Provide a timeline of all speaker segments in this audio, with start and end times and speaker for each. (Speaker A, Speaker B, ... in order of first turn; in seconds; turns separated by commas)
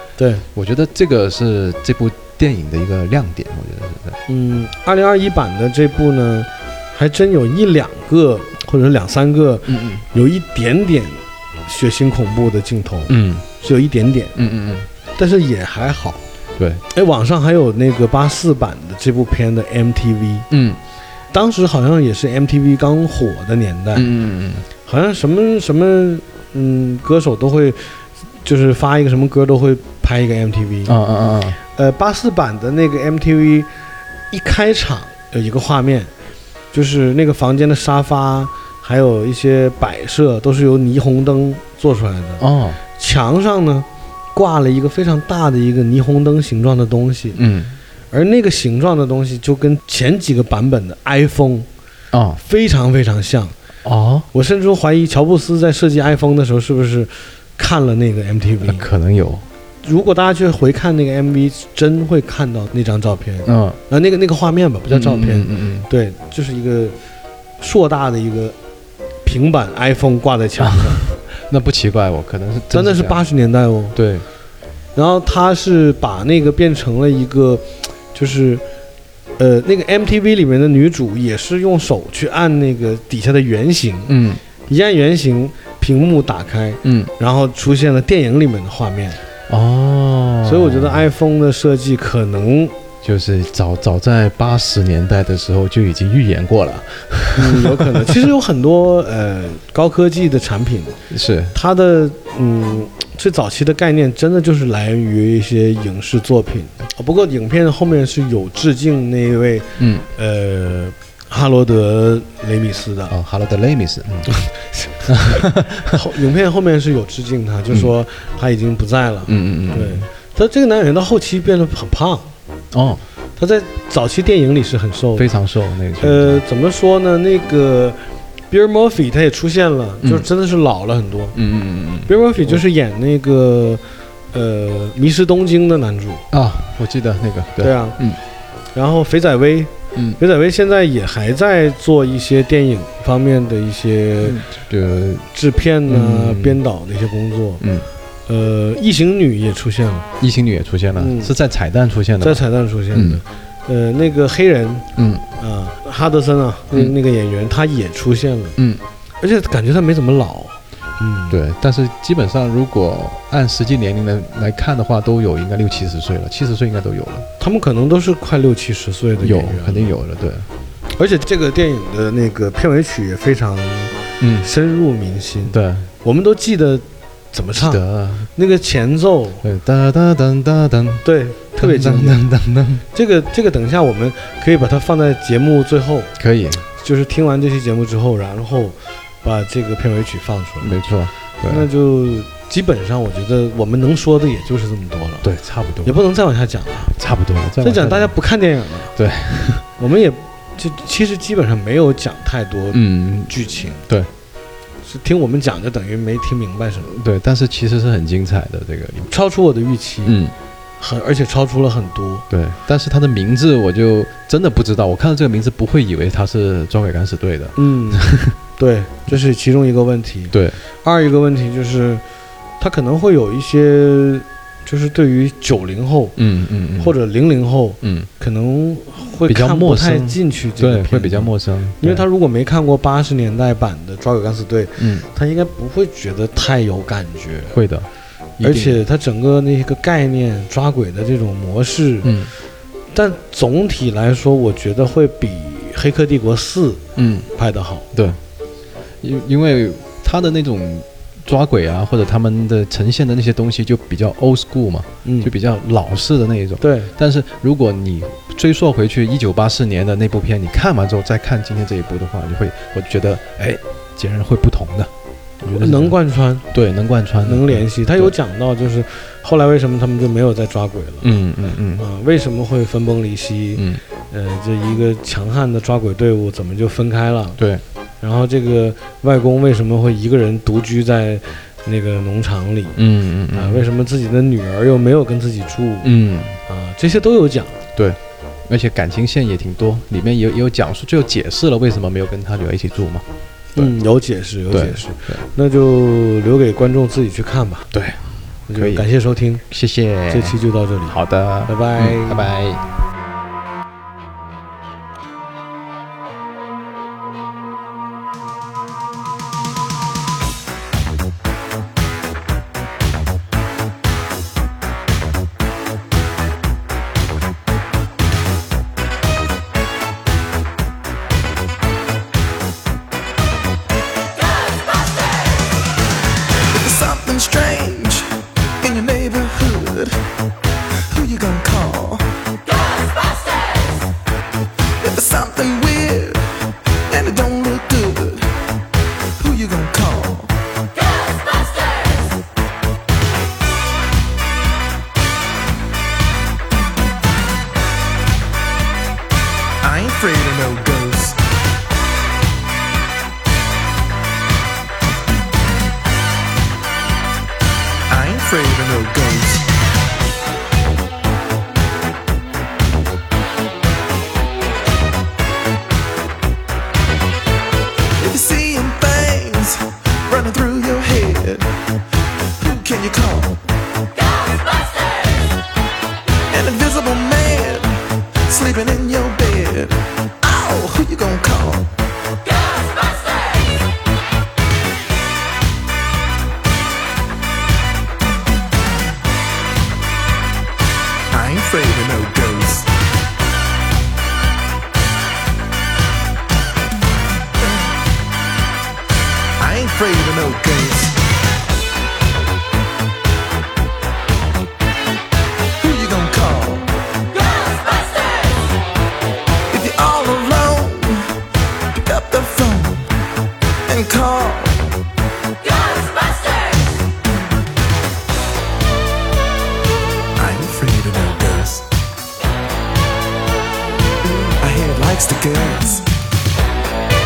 Speaker A: 0.2-0.4, Speaker B: 0.5-4.2, Speaker A: 4.3-14.3, Speaker B: 9.7-10.0, Speaker B: 13.1-13.4, Speaker B: 14.3-14.9, Speaker A: 15.2-16.2, Speaker B: 16.6-16.8, Speaker A: 16.9-20.5, Speaker B: 20.5-20.8, Speaker A: 21.3-24.1, Speaker B: 23.9-24.6, Speaker A: 24.9-30.9, Speaker B: 30.9-31.6, Speaker A: 31.7-33.7, Speaker A: 34.3-36.1, Speaker A: 36.7-42.4, Speaker B: 42.4-42.8, Speaker A: 43.0-47.4, Speaker B: 47.4-47.8, Speaker A: 48.1-51.7, Speaker B: 52.1-52.4, Speaker A: 52.4-53.5, Speaker B: 53.8-54.3, Speaker A: 54.3-58.8, Speaker B: 58.6-59.4, Speaker A: 59.8-67.0, Speaker B: 63.5-63.8, Speaker B: 64.9-65.9, Speaker A: 67.6-68.5, Speaker A: 69.2-71.0, Speaker B: 70.6-73.2, Speaker A: 72.7-74.0, Speaker B: 73.9-74.2, Speaker A: 74.9-78.6, Speaker A: 79.4-89.2, Speaker B: 84.1-84.4, Speaker B: 86.8-87.1, Speaker B: 89.5-91.1, Speaker A: 90.4-92.7, Speaker B: 93.0-98.2, Speaker A: 97.3-101.0, Speaker B: 101.1-101.5, Speaker A: 101.5-113.1, Speaker B: 109.8-110.0, Speaker B: 113.1-114.4, Speaker A: 114.3-122.3, Speaker B: 115.1-116.0, Speaker B: 119.2-120.1, Speaker B: 122.7-123.0, Speaker A: 123.4-125.3, Speaker B: 125.2-126.4, Speaker A: 126.0-128.0, Speaker A: 128.5-131.4, Speaker B: 130.0-130.3, Speaker B: 131.3-132.6, Speaker A: 132.1-133.8, Speaker A: 134.3-136.2, Speaker B: 136.3-138.2, Speaker A: 137.6-138.0, Speaker A: 138.7-144.4, Speaker B: 144.2-145.3, Speaker A: 145.3-147.6, Speaker B: 145.9-146.6, Speaker B: 147.6-147.8, Speaker A: 148.3-150.1, Speaker B: 150.2-153.2, Speaker A: 150.9-151.3, Speaker A: 152.2-158.6, Speaker B: 154.9-155.2, Speaker B: 158.6-158.8, Speaker A: 159.2-161.4, Speaker B: 161.3-167.3, Speaker A: 167.4-169.9, Speaker B: 169.2-170.5, Speaker A: 171.0-177.8, Speaker B: 174.2-174.5, Speaker B: 175.5-175.9, Speaker B: 177.6-178.3, Speaker A: 178.3-179.4, Speaker B: 179.4-181.1, Speaker A: 181.0-182.2, Speaker B: 181.6-182.8, Speaker A: 182.9-186.1, Speaker B: 186.2-186.6, Speaker A: 186.7-190.8, Speaker B: 190.6-191.7, Speaker A: 191.4-195.2, Speaker B: 195.2-196.0, Speaker A: 195.8-196.9, Speaker B: 196.9-198.2, Speaker A: 197.6-198.9, Speaker B: 198.9-199.6, Speaker A: 199.8-203.8, Speaker B: 202.7-204.1, Speaker A: 204.8-206.9, Speaker B: 206.8-209.1, Speaker A: 209.1-210.2, Speaker B: 210.0-210.3, Speaker A: 210.8-212.2, Speaker B: 212.3-218.3, Speaker A: 217.6-222.0, Speaker B: 220.3-220.6, Speaker A: 222.6-226.2, Speaker B: 226.2-226.9, Speaker A: 226.8-237.6, Speaker B: 227.8-228.1, Speaker B: 229.2-232.0, Speaker B: 234.8-235.1, Speaker B: 237.5-237.9, Speaker B: 238.4-238.8, Speaker A: 238.4-242.1, Speaker B: 242.0-242.3, Speaker A: 242.9-247.8, Speaker B: 247.0-247.3, Speaker B: 247.9-248.2, Speaker B: 249.0-264.9, Speaker A: 255.0-255.3, Speaker A: 256.6-256.9, Speaker B: 265.4-266.0, Speaker A: 265.5-266.4, Speaker B: 266.5-268.1, Speaker A: 267.2-271.1, Speaker B: 271.0-271.9, Speaker A: 271.8-277.4, Speaker B: 273.6-273.8, Speaker B: 277.4-277.6, Speaker A: 278.0-282.8, Speaker B: 282.8-283.6, Speaker A: 283.3-287.6, Speaker B: 285.8-286.4, Speaker B: 287.8-293.0, Speaker A: 293.5-297.7, Speaker B: 294.5-295.2, Speaker B: 297.7-298.0, Speaker A: 298.5-299.4, Speaker B: 298.5-298.9, Speaker B: 299.5-302.6, Speaker A: 300.1-302.3, Speaker C: 326.5-330.0, Speaker C: 330.9-332.1, Speaker C: 334.8-336.4, Speaker C: 336.9-338.4, Speaker C: 339.2-340.4, Speaker C: 349.6-351.2, Speaker C: 357.9-359.5, Speaker C: 368.0-371.5, Speaker C: 372.4-373.4, Speaker C: 376.3-381.7, Speaker C: 391.1-392.7, Speaker C: 399.4-401.0, Speaker C: 405.6-406.7, Speaker C: 409.5-411.1, Speaker C: 411.7-412.9, Speaker C: 413.6-414.7, Speaker C: 420.1-421.7, Speaker C: 424.0-425.9